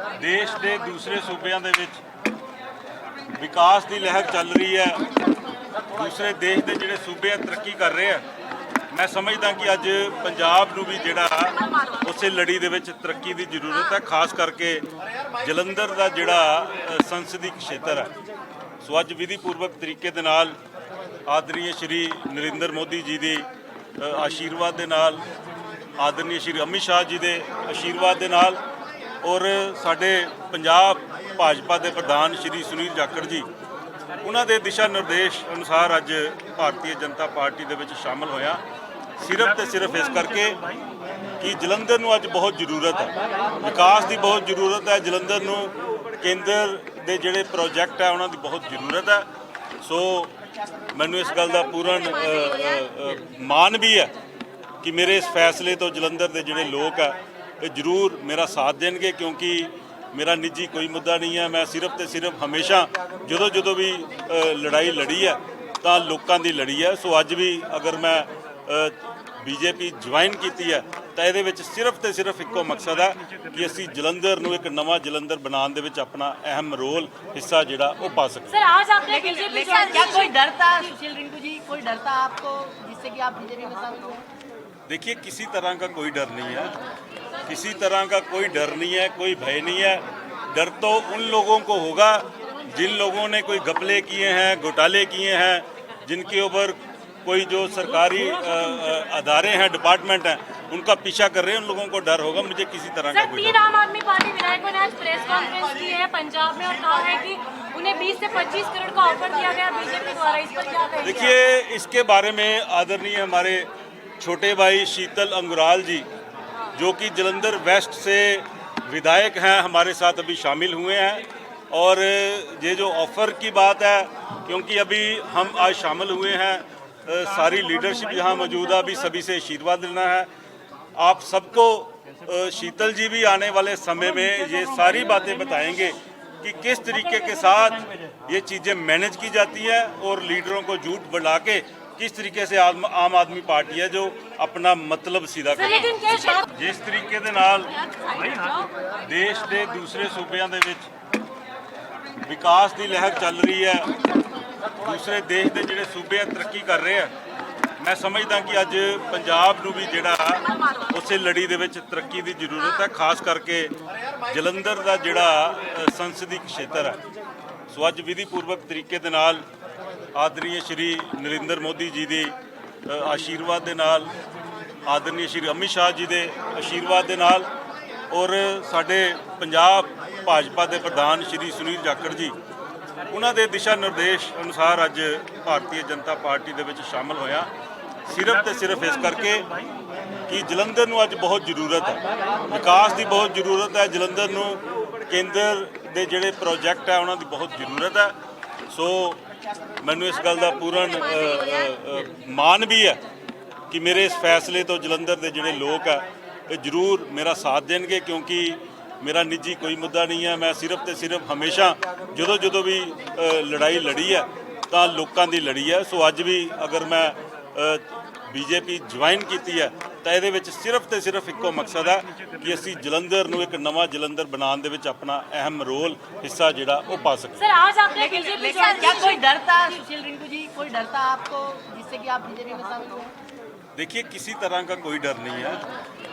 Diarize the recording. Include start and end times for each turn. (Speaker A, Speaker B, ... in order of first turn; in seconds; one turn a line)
Speaker A: 0.1-2.0
Speaker A: 3.4-5.0
Speaker A: 5.9-8.2
Speaker A: 8.9-14.9
Speaker A: 15.4-18.1
Speaker A: 18.8-20.6
Speaker A: 21.3-23.5
Speaker A: 24.0-25.2
Speaker A: 26.0-28.6
Speaker A: 29.2-33.5
Speaker A: 34.2-38.6
Speaker A: 39.2-40.6
Speaker A: 41.4-49.3
Speaker A: 49.8-50.3
Speaker A: 50.9-54.1
Speaker A: 54.8-78.6
Speaker B: 78.5-80.9
Speaker C: 79.0-84.2
Speaker A: 84.9-86.8
Speaker A: 87.5-103.6
Speaker B: 103.1-111.4
Speaker A: 111.0-116.1
Speaker A: 116.7-130.3
Speaker A: 131.0-147.8
Speaker B: 145.5-146.5
Speaker B: 148.0-148.7
Speaker A: 149.0-150.9
Speaker A: 152.3-153.9
Speaker A: 154.8-157.1
Speaker A: 157.8-163.7
Speaker A: 164.3-167.0
Speaker A: 167.7-169.4
Speaker A: 170.2-172.3
Speaker A: 172.9-174.1
Speaker A: 174.9-177.5
Speaker A: 178.1-182.3
Speaker A: 183.1-187.5
Speaker A: 188.1-189.5
Speaker A: 190.3-198.1
Speaker A: 198.7-199.2
Speaker A: 199.8-203.0
Speaker A: 203.7-227.5
Speaker B: 227.4-229.2
Speaker C: 228.0-233.1
Speaker A: 233.8-235.7